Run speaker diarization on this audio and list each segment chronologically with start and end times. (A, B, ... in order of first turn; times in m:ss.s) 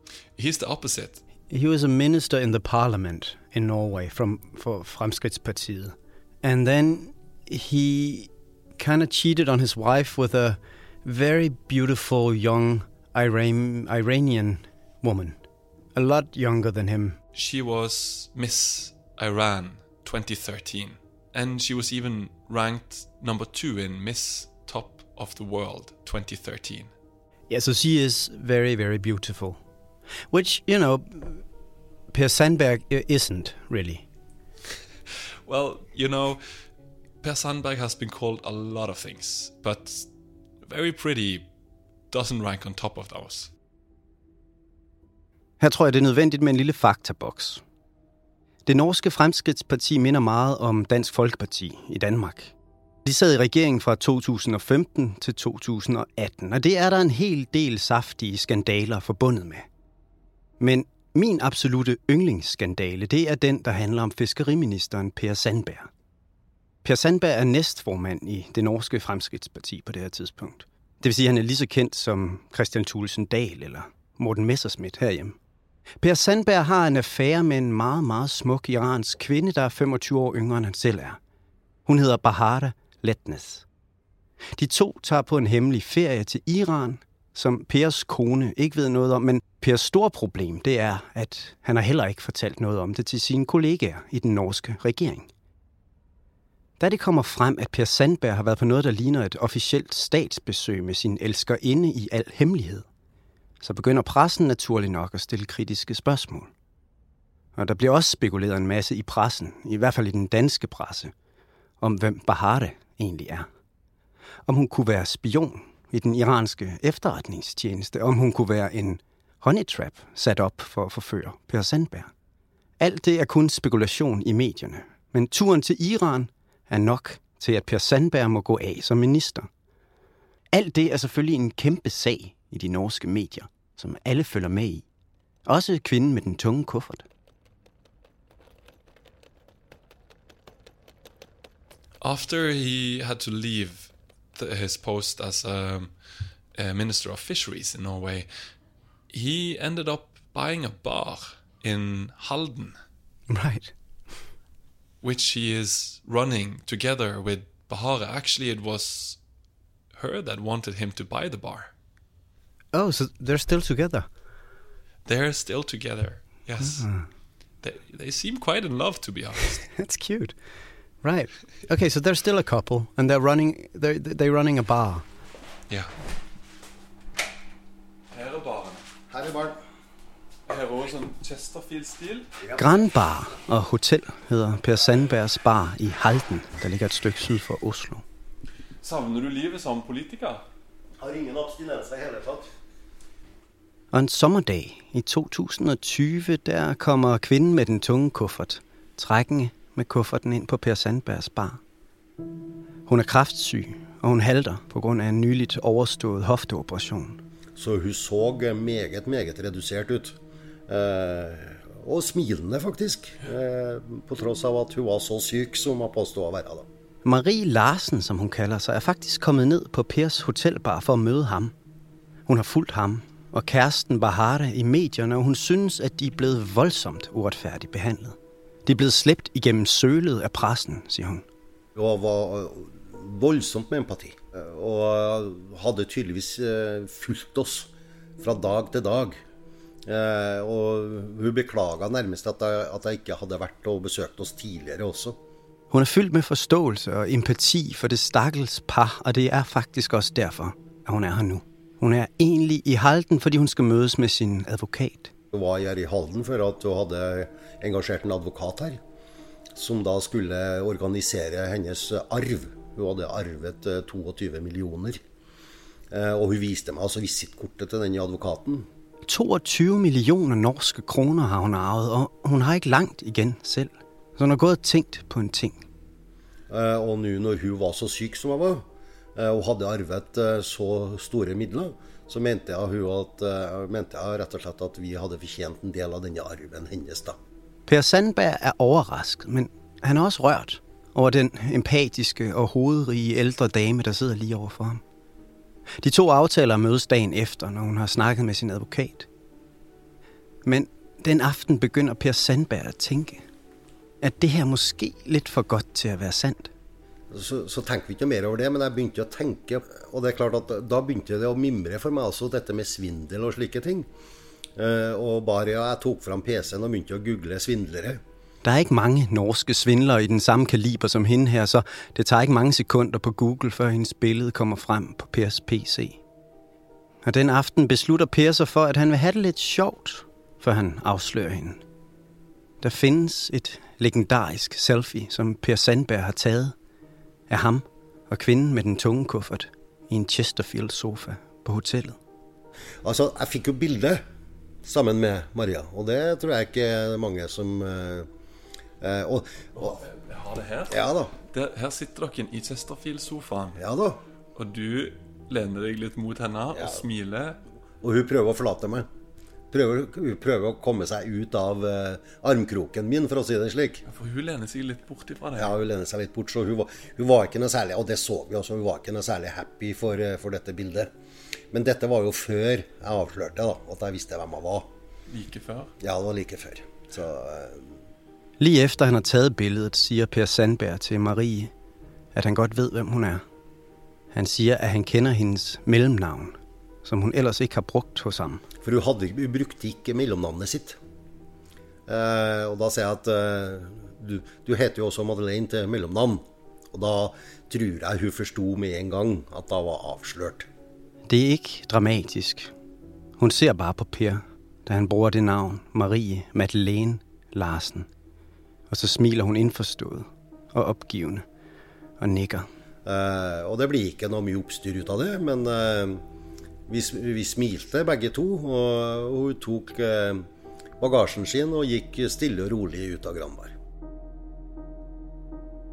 0:00.4-0:01.2 A
0:01.5-0:15.4 B
0:15.9-0:17.2 B
0:17.3-0:26.9 A
0:27.5-0:29.6 B
0:30.3-0:31.4 B
0:32.1-0:34.0 B
0:35.4-0:36.4 A
0:37.2-0:40.1 A
0:40.6-0:41.5 A
0:42.1-0:43.5 A
0:45.6-0:47.6 B
0:48.6-0:52.5 B
0:53.0-0:59.6 B
1:00.6-1:05.9 B
1:06.8-1:15.4 B
1:16.0-1:21.2 B
1:21.8-1:23.6 B
1:24.6-1:35.3 B
1:36.8-1:42.8 B
1:43.6-1:46.5 B
1:47.6-1:51.1 B
1:51.8-1:53.5 B
1:54.5-2:02.1 B
2:02.8-2:09.5 B
2:10.5-2:14.8 B
2:15.4-2:17.0 B
2:22.0-2:26.0 A
2:26.5-2:28.3 A
2:29.1-2:32.8 A
2:33.3-2:33.7 B
2:35.0-2:39.2 A
2:39.9-2:41.7 A
2:42.7-2:44.1 B
2:45.0-2:46.9 A
2:46.6-2:47.1 B
2:47.6-2:49.6 A
2:49.7-2:50.4 B
2:51.0-2:55.0 B
2:58.1-2:58.8 A
2:59.1-2:59.6 C
3:00.4-3:02.3 A
3:02.6-3:08.0 B
3:08.8-3:10.4 A
3:11.0-3:12.5 C
3:13.9-3:21.6 B
3:22.9-3:27.2 B
3:27.6-3:30.2 C
3:30.7-3:36.6 C
3:37.0-3:41.5 B
3:42.3-3:51.2 B
3:51.8-3:59.2 C
3:59.8-4:05.2 C
4:05.7-4:15.1 B
4:15.3-4:18.8 C
4:19.6-4:25.0 C
4:25.9-4:28.7 C
4:29.1-4:35.6 B
4:36.5-4:47.2 C
4:47.7-4:54.8 B
4:55.8-4:59.1 B
5:00.4-5:03.2 B
5:04.0-5:06.5 B
5:07.1-5:13.9 C
5:14.6-5:18.0 C
5:18.4-5:26.0 B
5:27.0-5:31.6 B
5:32.6-5:36.5 B
5:37.3-5:42.0 B
5:42.8-5:44.0 C
5:44.6-5:48.1 C
5:48.8-5:49.8 C
5:49.5-5:53.6 A
5:50.7-5:51.1 C
5:53.6-5:54.0 C
5:54.3-5:57.4 A
5:57.8-5:58.9 C
5:59.5-6:03.8 C
6:03.8-6:05.6 A
6:05.4-6:10.9 C
6:11.5-6:14.7 C
6:15.1-6:15.7 A
6:15.8-6:17.7 C
6:18.4-6:21.5 B
6:22.1-6:23.2 B
6:24.1-6:28.4 B
6:28.6-6:30.8 C
6:31.9-6:40.5 C
6:41.1-6:42.5 B
6:43.2-6:47.9 B
6:48.7-6:51.2 B
6:52.0-6:52.5 B
6:52.8-6:56.0 C
6:56.7-7:00.2 C
7:00.8-7:03.5 C